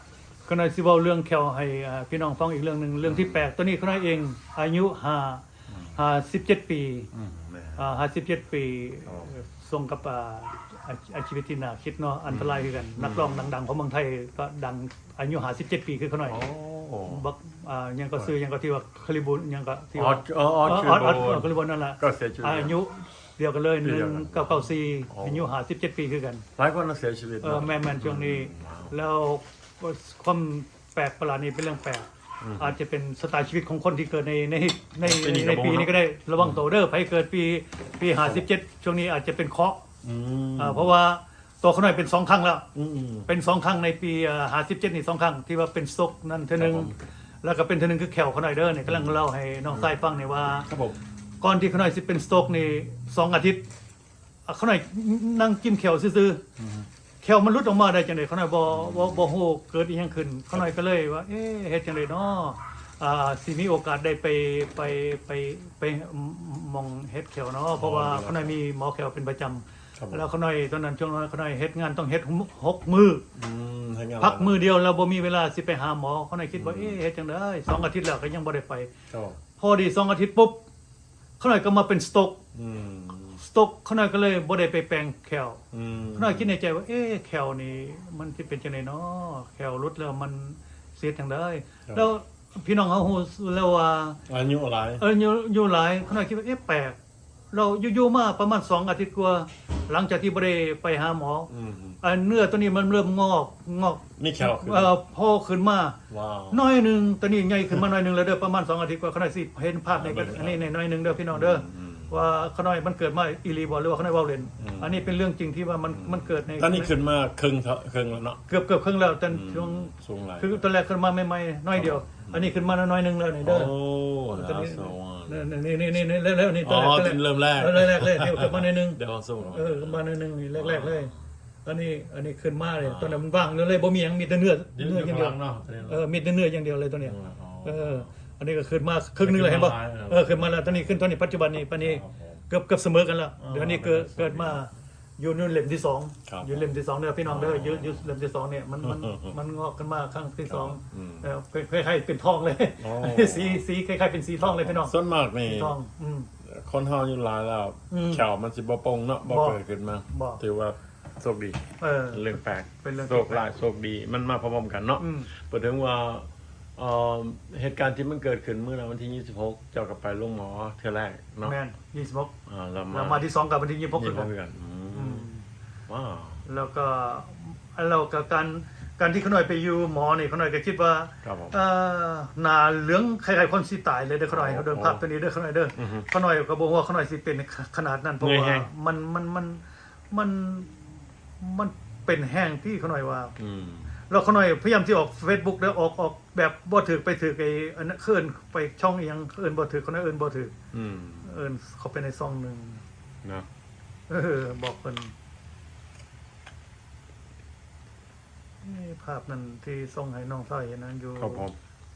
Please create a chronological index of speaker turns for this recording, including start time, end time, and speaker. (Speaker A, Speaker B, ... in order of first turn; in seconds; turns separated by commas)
Speaker A: 0.5-5.4, Speaker B: 3.0-3.4, Speaker B: 5.7-6.0, Speaker A: 5.9-7.1, Speaker B: 7.1-7.9, Speaker A: 7.8-16.4, Speaker B: 12.3-13.5, Speaker B: 16.3-17.2, Speaker A: 17.0-26.4, Speaker B: 19.9-22.8, Speaker B: 23.8-25.5, Speaker B: 26.6-28.9, Speaker A: 27.4-39.8, Speaker B: 32.4-32.7, Speaker B: 35.0-36.6, Speaker B: 38.2-38.5, Speaker B: 40.0-40.9, Speaker A: 40.6-42.6, Speaker B: 42.7-43.3, Speaker A: 43.3-46.9, Speaker B: 46.5-46.9, Speaker A: 47.4-50.7, Speaker B: 48.9-49.1, Speaker B: 50.5-51.0, Speaker A: 51.4-53.6, Speaker A: 54.5-56.4, Speaker B: 56.6-56.9, Speaker A: 57.2-73.2, Speaker B: 58.7-59.3, Speaker B: 67.7-68.6, Speaker B: 70.0-70.2, Speaker B: 73.3-74.6, Speaker A: 74.2-78.9, Speaker B: 76.5-77.0, Speaker B: 79.1-79.4, Speaker A: 79.6-80.6, Speaker A: 81.4-82.4, Speaker B: 82.5-83.4, Speaker A: 83.3-85.6, Speaker B: 85.7-86.5, Speaker A: 86.1-94.2, Speaker B: 94.3-95.0, Speaker A: 95.0-97.0, Speaker A: 97.5-101.5, Speaker B: 101.5-102.0, Speaker A: 102.0-106.0, Speaker B: 104.2-104.9, Speaker B: 106.1-106.6, Speaker A: 106.5-116.9, Speaker B: 109.9-110.6, Speaker B: 111.3-112.1, Speaker B: 114.6-115.1, Speaker B: 115.9-118.4, Speaker A: 118.5-123.7, Speaker B: 119.3-120.7, Speaker B: 121.7-122.5, Speaker B: 123.4-125.5, Speaker A: 124.3-131.1, Speaker B: 126.6-130.0, Speaker B: 130.5-131.2, Speaker A: 131.6-156.3, Speaker B: 132.8-133.2, Speaker B: 134.7-136.0, Speaker B: 137.0-138.1, Speaker B: 139.2-141.1, Speaker B: 141.8-142.4, Speaker B: 143.4-144.6, Speaker B: 146.2-146.7, Speaker B: 147.2-148.1, Speaker B: 148.8-149.3, Speaker B: 150.5-151.3, Speaker B: 152.8-153.6, Speaker B: 154.4-155.7, Speaker B: 156.4-171.6, Speaker A: 157.9-158.2, Speaker A: 159.2-159.6, Speaker A: 160.1-160.4, Speaker A: 161.8-163.5, Speaker A: 165.0-165.3, Speaker A: 171.4-172.3, Speaker B: 172.4-173.2, Speaker A: 172.9-174.3, Speaker B: 173.9-175.3, Speaker A: 174.9-175.4, Speaker B: 175.9-176.4, Speaker A: 176.4-193.3, Speaker B: 181.2-181.6, Speaker B: 184.3-185.0, Speaker B: 185.7-186.1, Speaker B: 188.2-188.7, Speaker B: 193.4-193.9, Speaker A: 194.1-200.5, Speaker B: 200.7-201.3, Speaker A: 201.2-202.8, Speaker A: 204.1-205.1, Speaker A: 208.6-211.5, Speaker B: 211.2-211.5